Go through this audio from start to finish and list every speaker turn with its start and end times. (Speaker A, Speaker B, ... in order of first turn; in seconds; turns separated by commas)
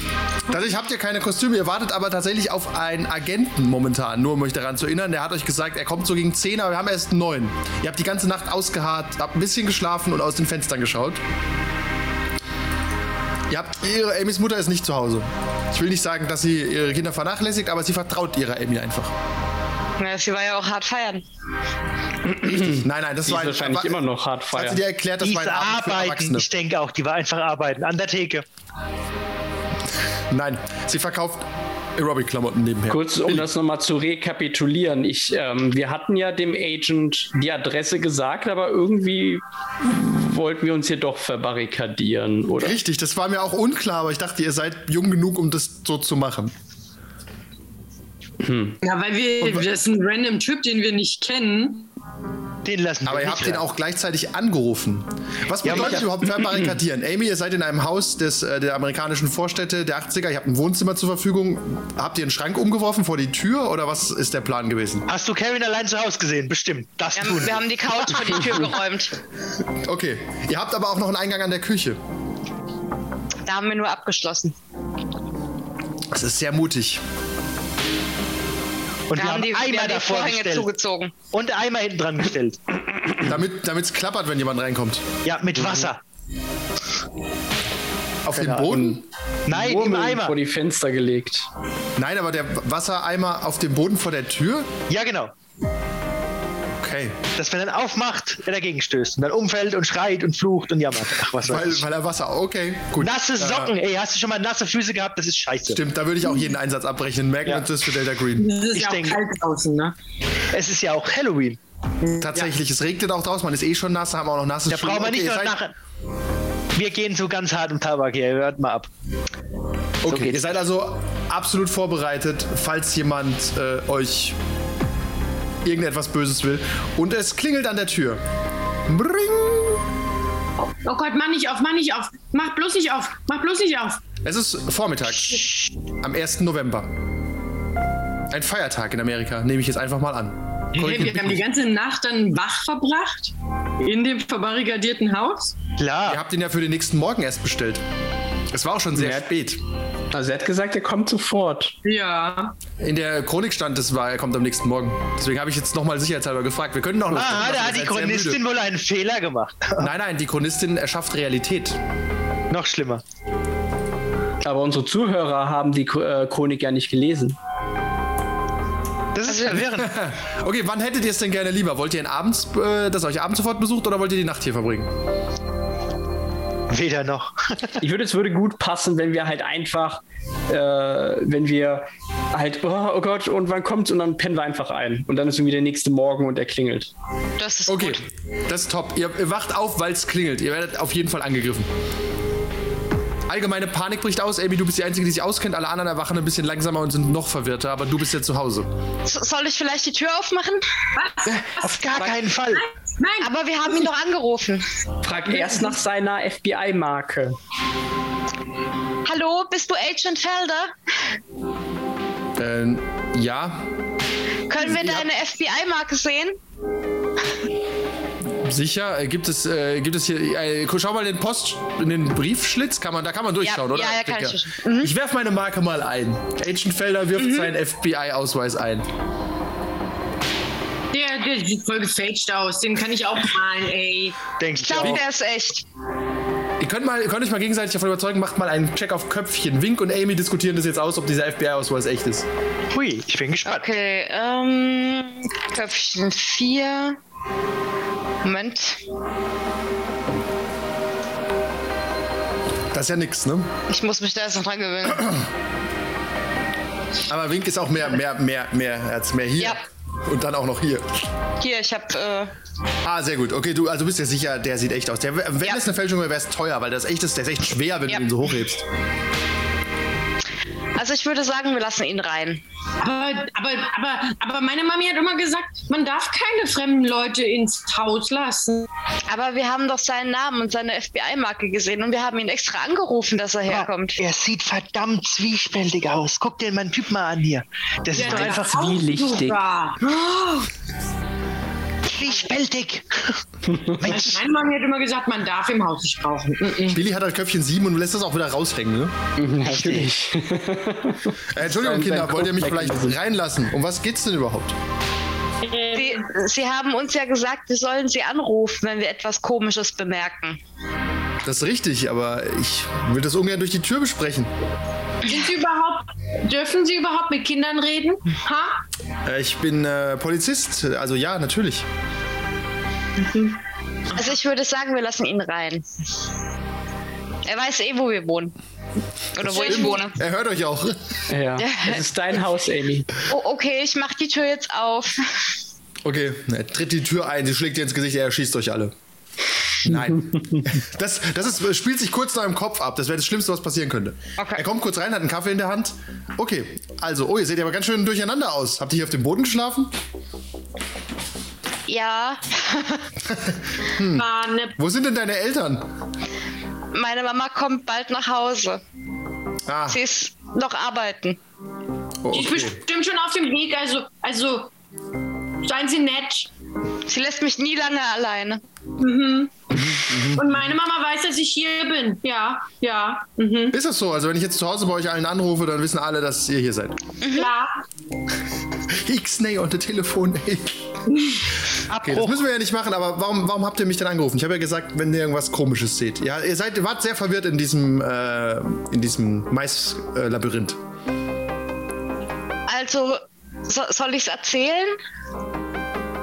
Speaker A: 0.5-11.2, Speaker A: 13.5-19.1, Speaker B: 20.0-21.2, Speaker C: 22.4-24.8, Speaker A: 22.4-26.5, Speaker D: 25.2-28.4, Speaker A: 30.3-33.5, Speaker C: 32.9-42.8, Speaker A: 42.5-46.5, Speaker C: 48.4-48.8, Speaker E: 48.8-51.9, Speaker A: 49.4-49.6, Speaker D: 52.6-53.6, Speaker A: 53.0-65.1, Speaker D: 55.6-56.0, Speaker C: 55.7-56.8, Speaker D: 65.1-68.7, Speaker B: 67.1-69.1, Speaker A: 69.8-72.0, Speaker B: 73.5-74.5, Speaker A: 76.1-77.0, Speaker D: 79.1-80.7, Speaker B: 79.2-81.1, Speaker D: 81.3-82.6, Speaker A: 83.2-85.1, Speaker D: 85.2-86.0, Speaker A: 88.2-89.0, Speaker D: 88.3-88.8, Speaker C: 88.7-91.5, Speaker D: 89.5-90.3, Speaker A: 92.0-94.7, Speaker D: 94.9-95.3, Speaker A: 96.8-97.2, Speaker D: 97.4-101.8, Speaker A: 101.4-103.7, Speaker D: 103.0-105.8, Speaker A: 105.7-108.5, Speaker E: 108.4-109.9, Speaker D: 108.7-109.2, Speaker D: 110.5-111.6, Speaker E: 112.0-112.5, Speaker A: 112.2-115.6, Speaker D: 114.7-115.7, Speaker D: 116.7-118.9, Speaker A: 120.0-124.4, Speaker D: 120.1-120.5, Speaker A: 125.6-128.2, Speaker A: 128.9-129.8, Speaker E: 130.6-134.0, Speaker A: 134.2-135.4, Speaker A: 136.0-136.9, Speaker A: 138.3-141.4, Speaker E: 140.7-145.6, Speaker D: 145.8-146.2, Speaker A: 146.1-147.8, Speaker A: 148.5-149.6, Speaker C: 148.9-149.2, Speaker C: 150.1-151.8, Speaker E: 151.8-152.5, Speaker A: 152.8-158.4, Speaker D: 157.1-159.9, Speaker A: 159.8-161.8, Speaker D: 162.5-163.0, Speaker C: 164.4-167.4, Speaker D: 169.1-169.9, Speaker B: 169.2-169.7, Speaker A: 169.7-174.9, Speaker D: 176.7-177.8, Speaker C: 177.8-186.9, Speaker B: 187.4-188.0, Speaker A: 187.7-191.7, Speaker A: 193.3-198.7, Speaker B: 199.1-200.6, Speaker E: 200.9-203.8, Speaker D: 201.6-202.6, Speaker B: 203.2-204.7, Speaker C: 205.0-207.4, Speaker E: 205.3-205.7, Speaker B: 209.0-210.7, Speaker A: 212.4-213.7, Speaker B: 214.5-216.4, Speaker A: 214.6-215.1, Speaker A: 218.4-228.9, Speaker B: 223.4-224.9, Speaker B: 227.2-227.5, Speaker E: 230.9-234.2, Speaker D: 234.4-235.0, Speaker B: 234.6-235.6, Speaker A: 236.6-242.3, Speaker D: 242.7-243.7, Speaker B: 243.4-247.0, Speaker B: 248.2-248.8, Speaker A: 252.7-253.5, Speaker B: 253.7-255.2, Speaker A: 257.1-260.9, Speaker B: 261.4-262.3, Speaker A: 262.8-268.6, Speaker B: 270.8-272.4, Speaker E: 272.8-278.7, Speaker B: 279.1-284.0, Speaker D: 283.5-288.7, Speaker E: 287.9-290.5, Speaker C: 288.0-289.4, Speaker D: 291.8-293.2, Speaker C: 293.5-293.9, Speaker D: 293.8-294.2, Speaker E: 293.8-296.8, Speaker A: 296.7-298.9, Speaker C: 299.2-303.0, Speaker D: 299.4-299.9, Speaker A: 301.3-304.6, Speaker E: 305.4-306.1, Speaker B: 305.7-310.4, Speaker A: 311.2-314.3, Speaker E: 315.0-318.6, Speaker A: 319.0-321.7, Speaker B: 323.9-325.7, Speaker B: 327.2-328.4, Speaker B: 329.1-329.9, Speaker A: 329.2-331.0, Speaker E: 329.3-329.8, Speaker C: 331.1-332.9, Speaker B: 331.4-331.8, Speaker B: 333.1-335.3, Speaker A: 335.8-338.7, Speaker A: 339.6-349.7, Speaker C: 339.7-340.4, Speaker B: 344.2-344.4, Speaker B: 351.7-352.9, Speaker A: 353.1-355.7, Speaker E: 353.9-354.6, Speaker B: 356.7-358.6, Speaker A: 359.5-359.8, Speaker B: 359.7-361.2, Speaker A: 362.0-362.6, Speaker E: 362.1-364.5, Speaker E: 365.4-366.3, Speaker B: 366.9-368.4, Speaker E: 368.8-373.6, Speaker A: 369.6-370.4, Speaker A: 373.5-376.8, Speaker B: 377.0-377.3, Speaker E: 377.1-377.6, Speaker A: 378.7-380.6, Speaker E: 380.9-381.2, Speaker D: 381.7-382.2, Speaker A: 381.8-390.6, Speaker B: 392.5-394.8